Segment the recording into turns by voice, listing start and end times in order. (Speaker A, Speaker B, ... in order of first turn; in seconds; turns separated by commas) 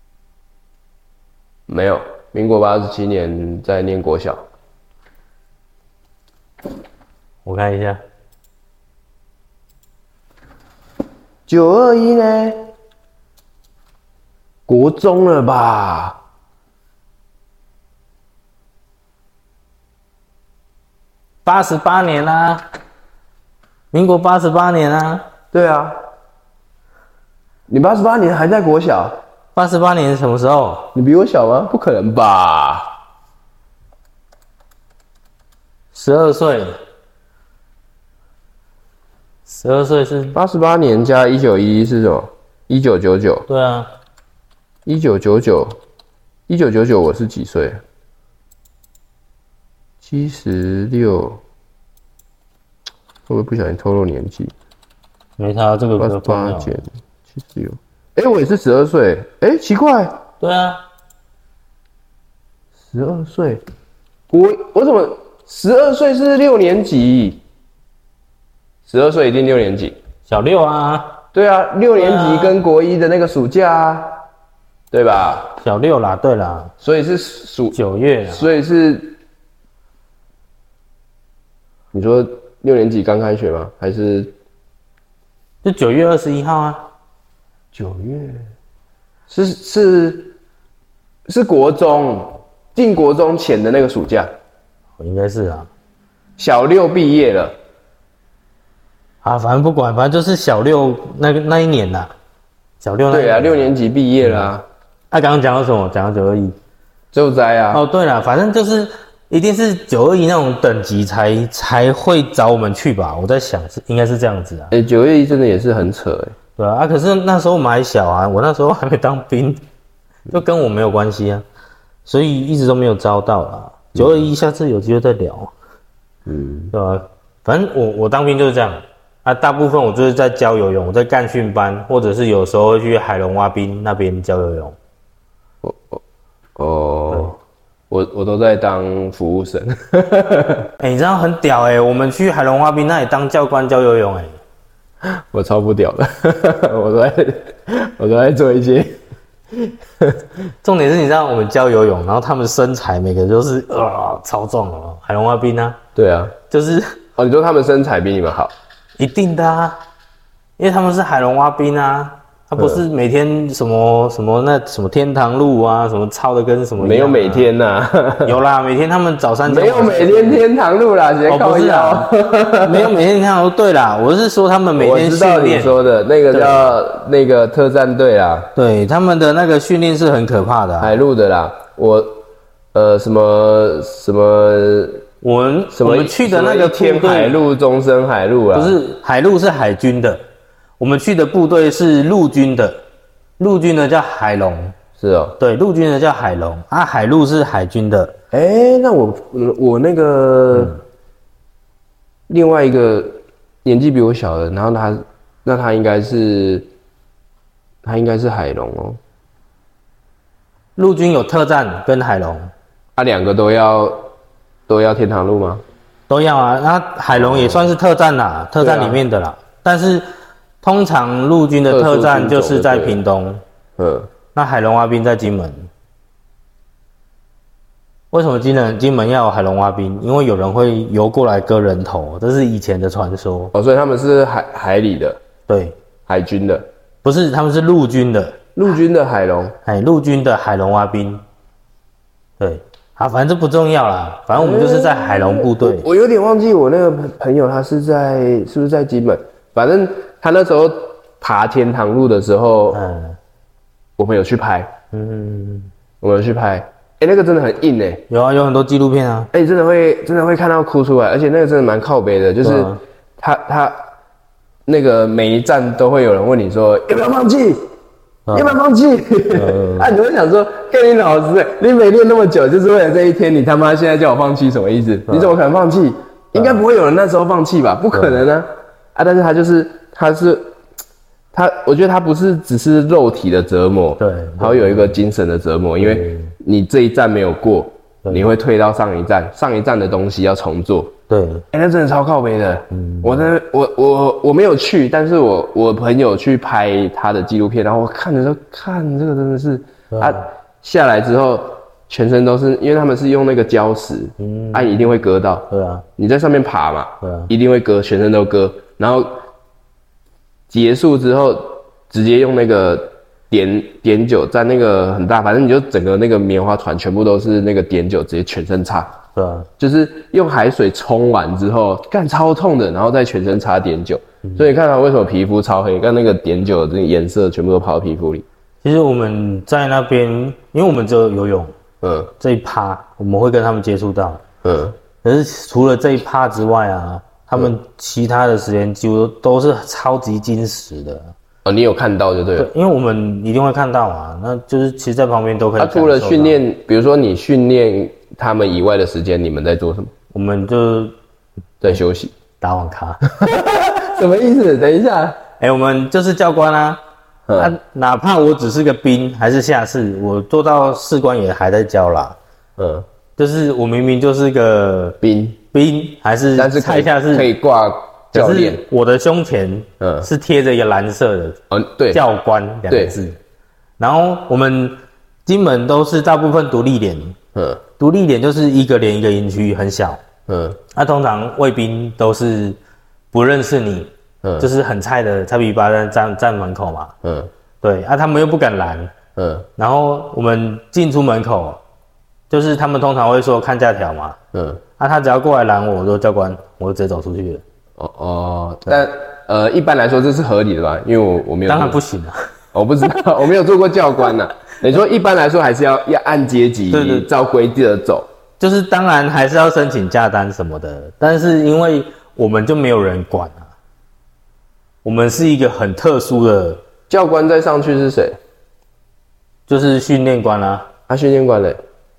Speaker A: 1.7-4.4, Speaker B: 7.5-8.0, Speaker A: 11.5-12.7, Speaker A: 14.7-16.2, Speaker B: 21.4-22.6, Speaker B: 23.9-25.3, Speaker A: 25.5-26.0, Speaker A: 27.7-29.2, Speaker B: 29.6-30.9, Speaker A: 30.9-33.0, Speaker B: 35.9-36.8, Speaker B: 39.5-40.4, Speaker A: 40.3-43.5, Speaker B: 43.5-43.9, Speaker A: 44.9-45.8, Speaker A: 46.5-47.8, Speaker A: 50.0-51.4, Speaker A: 53.3-54.5, Speaker B: 55.4-56.8, Speaker A: 56.0-60.2, Speaker B: 60.4-60.8, Speaker A: 62.9-63.6, Speaker A: 64.3-67.4, Speaker A: 68.9-70.0, Speaker B: 70.3-71.2, Speaker A: 71.3-74.2, Speaker B: 72.0-72.6, Speaker A: 74.9-75.5, Speaker B: 75.6-76.7, Speaker A: 76.8-77.8, Speaker B: 77.7-78.5, Speaker A: 78.3-79.2, Speaker A: 81.9-84.3, Speaker B: 85.6-86.9, Speaker A: 87.7-88.5, Speaker A: 89.3-90.4, Speaker A: 91.3-94.3, Speaker B: 95.0-95.7, Speaker A: 96.4-97.5, Speaker B: 99.2-102.1, Speaker B: 102.8-104.5, Speaker A: 103.1-104.7, Speaker B: 105.1-106.5, Speaker A: 107.1-107.8, Speaker B: 107.7-114.7, Speaker A: 114.7-116.3, Speaker B: 116.6-119.6, Speaker B: 120.3-121.4, Speaker B: 122.1-125.5, Speaker A: 126.3-126.7, Speaker B: 126.7-134.8, Speaker A: 135.6-136.0, Speaker A: 136.6-137.4, Speaker A: 137.9-140.7, Speaker B: 140.8-144.4, Speaker A: 145.1-149.0, Speaker A: 149.5-150.2, Speaker B: 150.6-155.8, Speaker A: 155.9-156.3, Speaker B: 156.5-157.0, Speaker A: 157.2-158.5, Speaker B: 159.0-159.8, Speaker B: 160.6-167.5, Speaker A: 162.6-162.8, Speaker A: 166.8-168.3, Speaker B: 168.2-170.4, Speaker A: 169.5-172.9, Speaker B: 171.3-175.8, Speaker A: 174.8-178.5, Speaker B: 176.3-176.7, Speaker B: 178.6-181.0, Speaker A: 180.8-182.2, Speaker A: 182.7-185.1, Speaker B: 185.2-187.4, Speaker A: 185.7-188.8, Speaker B: 188.5-190.2, Speaker B: 190.8-192.8, Speaker B: 193.4-194.8, Speaker A: 195.0-195.4, Speaker B: 195.4-198.1, Speaker A: 198.3-200.8, Speaker A: 202.3-206.7, Speaker A: 207.8-209.0, Speaker B: 210.8-212.5, Speaker A: 213.0-214.1, Speaker A: 214.7-215.6, Speaker B: 216.1-220.1, Speaker A: 217.1-217.7, Speaker A: 218.6-219.0, Speaker B: 220.6-223.4, Speaker A: 221.7-223.0, Speaker A: 223.8-224.1, Speaker B: 224.3-225.7, Speaker B: 228.1-233.5, Speaker A: 233.5-235.2, Speaker B: 235.5-235.8, Speaker A: 236.1-236.7, Speaker B: 237.0-238.4, Speaker A: 238.6-239.6, Speaker B: 239.7-241.2, Speaker B: 242.4-245.9, Speaker A: 244.3-252.8, Speaker B: 252.7-253.2, Speaker A: 254.0-254.7, Speaker B: 254.9-255.7, Speaker A: 256.0-258.1, Speaker B: 258.1-259.3, Speaker A: 259.3-263.9, Speaker B: 262.4-262.8, Speaker A: 264.7-267.6, Speaker B: 268.3-268.6, Speaker A: 268.3-280.5, Speaker B: 269.3-269.9, Speaker B: 275.1-275.3, Speaker A: 281.3-290.9, Speaker B: 284.0-285.0, Speaker B: 285.8-286.3, Speaker B: 291.1-291.4, Speaker A: 291.5-309.2, Speaker B: 292.7-293.3, Speaker B: 299.9-300.2, Speaker B: 304.2-304.7, Speaker B: 305.5-305.8, Speaker B: 307.0-307.3, Speaker A: 310.5-319.0, Speaker B: 319.1-319.5, Speaker A: 319.6-328.2, Speaker B: 328.6-331.5, Speaker A: 331.8-332.1, Speaker B: 332.2-334.2, Speaker A: 334.4-334.8, Speaker B: 335.0-341.1, Speaker A: 341.4-342.5, Speaker B: 342.4-346.4, Speaker A: 345.6-349.9, Speaker B: 350.1-350.9, Speaker A: 351.6-352.1, Speaker B: 352.4-353.0, Speaker A: 353.1-355.2, Speaker B: 355.4-356.8, Speaker A: 357.3-357.5, Speaker B: 357.4-362.2, Speaker A: 362.6-362.9, Speaker B: 363.2-365.0, Speaker A: 365.0-365.4, Speaker B: 365.5-367.3, Speaker A: 366.4-368.6, Speaker B: 368.1-371.4, Speaker A: 369.8-370.1, Speaker A: 371.5-372.0, Speaker B: 371.9-373.2, Speaker A: 372.7-373.0, Speaker B: 373.8-377.2, Speaker A: 377.4-377.6, Speaker B: 377.8-380.0, Speaker A: 380.3-380.6, Speaker B: 380.7-382.6, Speaker B: 383.1-386.9, Speaker A: 384.2-384.5, Speaker A: 387.0-387.3, Speaker B: 387.6-388.9, Speaker A: 389.2-389.5, Speaker B: 389.6-391.6, Speaker B: 392.3-394.2, Speaker A: 394.3-394.6, Speaker B: 394.8-397.4, Speaker A: 397.8-401.8, Speaker B: 401.5-402.2, Speaker A: 402.5-408.1, Speaker B: 406.7-407.1, Speaker B: 408.4-413.5, Speaker B: 414.8-416.6, Speaker A: 416.9-418.2, Speaker B: 419.5-420.7, Speaker A: 420.9-421.6